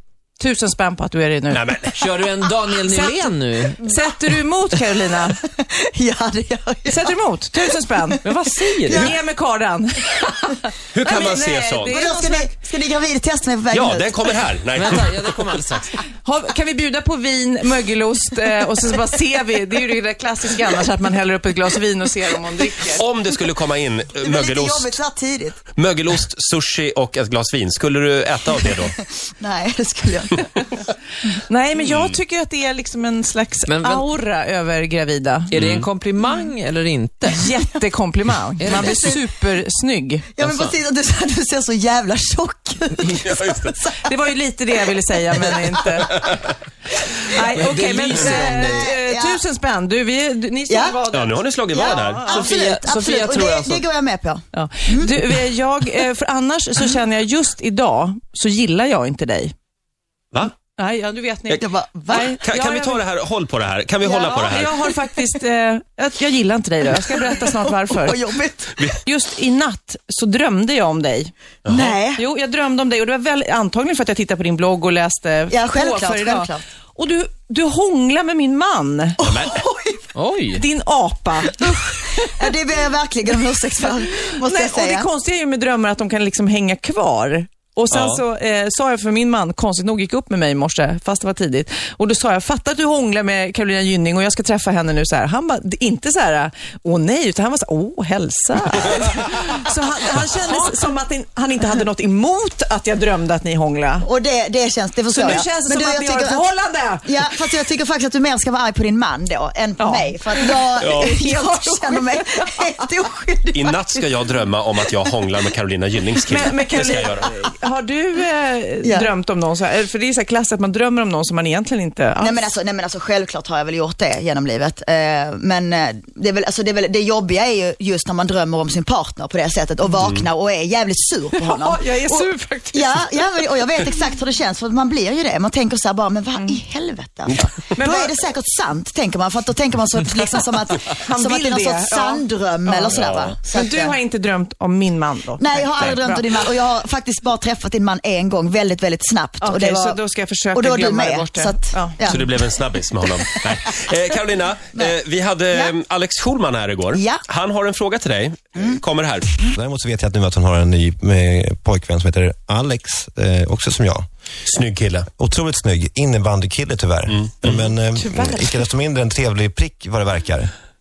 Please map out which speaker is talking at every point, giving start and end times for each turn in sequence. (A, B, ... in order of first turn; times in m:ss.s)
0:00.4-0:01.8 A
0:01.5-0:02.0 B
0:01.9-0:03.8 C
0:02.8-0:05.4 A
0:05.6-0:07.1 D
0:06.8-0:10.1 A
0:08.2-0:09.0 C
0:08.8-0:09.1 D
0:10.9-0:12.0 B
0:11.0-0:12.5 A
0:11.9-0:14.4 D
0:13.7-0:15.0 B
0:14.7-0:15.9 C
0:16.2-0:23.0 A
0:22.8-0:25.0 B
0:24.2-0:25.6 D
0:25.8-0:28.9 B
0:29.0-0:30.5 D
0:31.5-0:35.5 A
0:31.9-0:32.1 B
0:33.6-0:34.1 C
0:35.5-0:37.4 C
0:35.5-0:35.9 B
0:37.3-0:40.3 A
0:38.6-0:39.1 C
0:38.7-0:39.2 D
0:40.3-0:44.0 D
0:40.4-0:40.7 C
0:43.2-0:43.7 B
0:44.0-0:46.1 A
0:45.4-0:46.2 D
0:47.3-0:52.6 A
0:47.5-0:48.8 C
0:48.0-0:49.4 D
0:50.7-0:51.0 D
0:51.1-0:52.4 B
0:51.7-0:55.2 D
0:52.4-0:53.8 C
0:54.5-0:59.5 A
1:00.8-1:03.0 A
1:01.6-1:02.2 D
1:02.1-1:04.9 B
1:04.0-1:08.2 A
1:07.4-1:08.8 D
1:09.0-1:11.3 A
1:11.6-1:12.0 B
1:11.7-1:12.2 D
1:12.1-1:19.2 A
1:15.5-1:16.6 D
1:19.2-1:20.1 D
1:19.2-1:19.6 B
1:20.1-1:20.6 C
1:20.5-1:21.9 A
1:21.6-1:25.1 D
1:24.4-1:44.1 A
1:27.9-1:28.2 B
1:44.0-1:46.5 D
1:45.1-1:47.1 A
1:47.0-1:54.0 D
1:49.8-1:52.5 A
1:50.8-1:51.1 B
1:53.5-1:57.3 B
1:56.1-2:02.4 A
1:58.8-1:59.1 D
2:02.2-2:24.0 D
2:11.3-2:14.0 A
2:17.7-2:18.2 A
2:21.0-2:26.2 A
2:22.9-2:23.3 B
2:25.4-2:30.0 D
2:29.4-2:32.0 A
2:30.5-2:32.4 D
2:32.1-2:39.4 B
2:36.9-2:37.2 D
2:39.5-2:44.0 E
2:44.4-2:45.1 B
2:45.2-2:50.5 E
2:47.1-2:47.7 B